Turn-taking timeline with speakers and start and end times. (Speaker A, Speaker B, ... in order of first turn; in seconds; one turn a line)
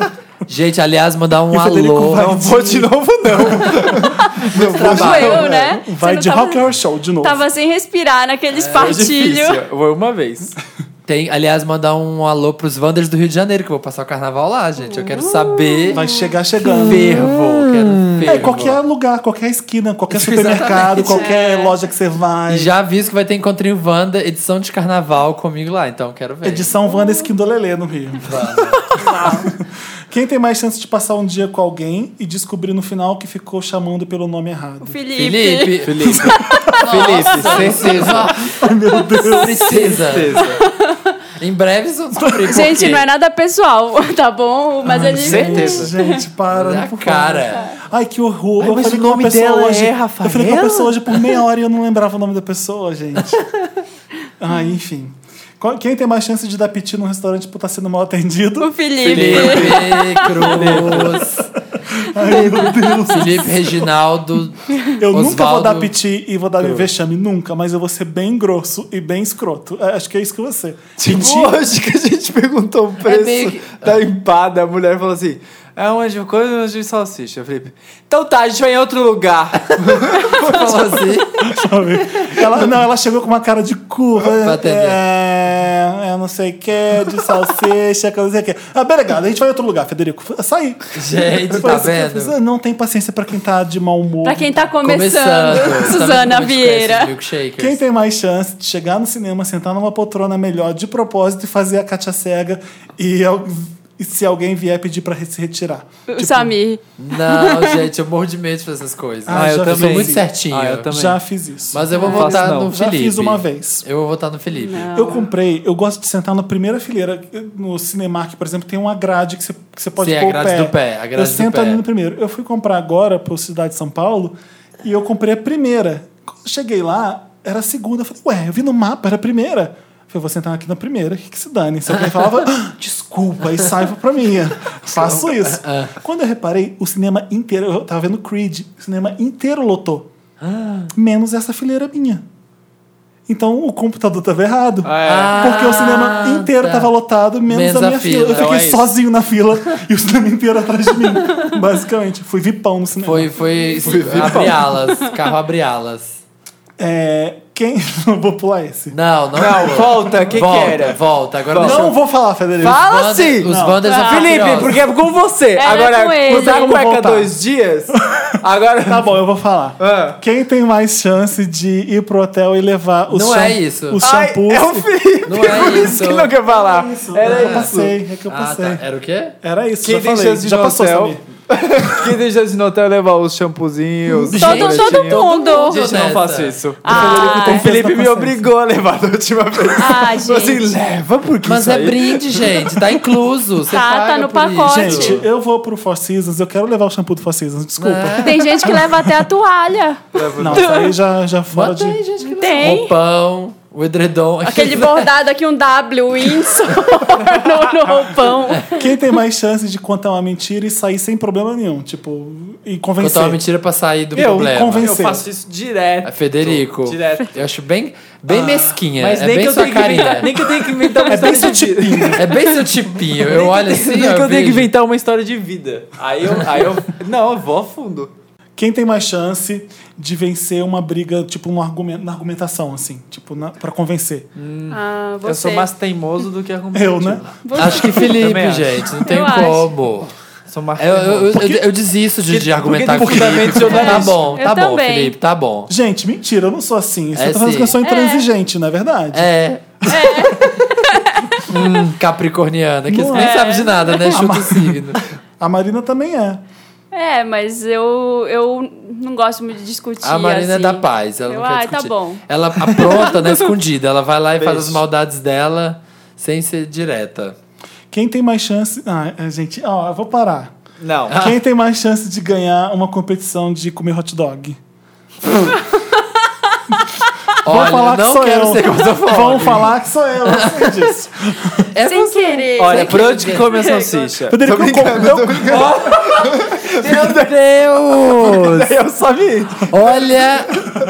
Speaker A: 0.5-2.4
Speaker B: 1.5-7.4
Speaker C: 2.0-5.4
Speaker D: 4.2-6.6
Speaker A: 4.5-5.5
Speaker D: 7.2-9.6
Speaker A: 8.5-9.1
Speaker C: 8.7-10.6
Speaker A: 11.1-16.1
Speaker D: 14.8-16.3
Speaker B: 15.9-17.3
Speaker C: 16.7-18.5
Speaker A: 16.8-18.8
Speaker B: 18.2-22.7
Speaker A: 20.1-21.3
Speaker D: 21.1-21.8
Speaker A: 22.5-26.7
Speaker B: 26.4-28.4
Speaker D: 26.9-27.3
Speaker A: 28.2-28.8
Speaker D: 28.9-29.5
Speaker B: 29.0-29.5
Speaker B: 30.1-35.0
Speaker D: 34.8-36.7
Speaker A: 35.1-38.5
Speaker C: 35.8-38.3
Speaker B: 36.1-39.7
Speaker D: 39.1-39.5
Speaker A: 39.1-40.5
Speaker C: 39.6-40.6
Speaker D: 40.6-40.9
Speaker A: 41.4-43.0
Speaker B: 42.2-42.7
Speaker D: 42.5-46.1
Speaker A: 44.9-45.3
Speaker B: 44.9-53.4
Speaker C: 45.2-45.9
Speaker A: 46.5-47.7
Speaker C: 48.6-51.4
Speaker B: 54.4-58.7
Speaker D: 58.6-60.5
Speaker A: 59.0-61.5
Speaker C: 59.0-61.2
Speaker B: 61.9-63.9
Speaker C: 62.3-63.0
Speaker A: 63.1-65.9
Speaker B: 65.0-71.6
Speaker C: 66.6-66.9
Speaker C: 71.0-81.2
Speaker A: 73.0-74.0
Speaker A: 79.8-81.7
Speaker B: 81.4-90.9
Speaker A: 84.4-85.0
Speaker A: 90.9-92.3
Speaker B: 91.5-94.8
Speaker D: 94.2-97.1
Speaker A: 94.8-97.8
Speaker B: 97.6-106.5
Speaker D: 106.1-107.9
Speaker A: 107.0-110.9
Speaker B: 109.2-110.3
Speaker C: 109.3-111.2
Speaker B: 110.9-113.8
Speaker A: 111.7-115.1
Speaker D: 111.9-112.3
Speaker C: 112.0-112.7
Speaker D: 114.5-115.2
Speaker B: 114.9-140.1
Speaker A: 120.0-121.8
Speaker A: 131.9-132.5
Speaker A: 133.6-133.8
Speaker A: 134.8-135.9
Speaker A: 140.4-140.9
Speaker B: 140.9-142.2
Speaker B: 143.3-154.7
Speaker C: 144.8-145.7
Speaker A: 145.0-146.9
Speaker A: 147.4-148.8
Speaker C: 148.3-148.9
Speaker A: 153.0-156.2
Speaker C: 153.8-154.9
Speaker B: 156.8-159.0
Speaker A: 158.9-161.9
Speaker C: 159.3-161.9
Speaker B: 161.5-163.8
Speaker C: 162.6-169.1
Speaker A: 162.6-164.8
Speaker D: 163.8-164.6
Speaker D: 165.6-166.8
Speaker B: 166.3-167.3
Speaker B: 168.8-174.9
Speaker C: 169.8-170.2
Speaker A: 173.1-174.0
Speaker C: 174.0-178.0
Speaker A: 175.2-176.3
Speaker B: 175.6-178.8
Speaker A: 177.2-177.7
Speaker A: 178.3-179.3
Speaker B: 179.4-181.2
Speaker C: 179.8-193.0
Speaker A: 184.3-186.6
Speaker D: 184.3-185.8
Speaker D: 186.8-187.7
Speaker B: 186.8-188.5
Speaker D: 189.8-190.7
Speaker A: 191.4-195.2
Speaker D: 193.7-195.2
Speaker B: 194.6-198.8
Speaker A: 197.8-198.8
Speaker D: 198.2-200.9
Speaker C: 200.1-200.8
Speaker B: 200.3-202.0
Speaker A: 201.5-205.1
Speaker D: 202.2-202.9
Speaker D: 204.4-208.8
Speaker A: 206.7-207.0
Speaker B: 208.7-213.4
Speaker A: 213.0-215.0
Speaker B: 214.1-215.2
Speaker C: 214.1-217.3
Speaker A: 216.0-220.3
Speaker C: 218.3-222.5
Speaker B: 221.1-222.3
Speaker A: 222.2-224.7
Speaker C: 223.1-228.1
Speaker B: 228.6-234.3
Speaker C: 234.3-238.9
Speaker D: 234.7-235.7
Speaker B: 236.7-237.2
Speaker D: 237.4-238.2
Speaker A: 237.6-240.1
Speaker D: 239.0-239.7
Speaker C: 240.5-241.5
Speaker A: 240.8-245.7
Speaker B: 242.3-244.1
Speaker C: 242.6-244.4
Speaker D: 243.6-245.1
Speaker B: 245.7-249.3
Speaker A: 247.1-247.8
Speaker D: 247.8-248.2
Speaker A: 249.1-249.6
Speaker B: 249.9-250.4
Speaker D: 249.9-251.4
Speaker A: 251.5-255.0
Speaker C: 251.5-251.8
Speaker B: 252.9-256.4
Speaker D: 253.1-254.1
Speaker D: 256.9-262.2
Speaker A: 260.0-267.4
Speaker C: 264.4-264.8
Speaker B: 267.9-270.5
Speaker C: 270.8-271.2
Speaker A: 271.1-271.4
Speaker B: 271.1-274.6
Speaker A: 277.4-280.9
Speaker B: 277.4-281.7
Speaker A: 281.7-283.5
Speaker D: 281.8-284.1
Speaker C: 282.6-287.4
Speaker B: 284.3-285.9
Speaker A: 286.8-288.8
Speaker C: 288.0-289.8
Speaker A: 289.7-290.5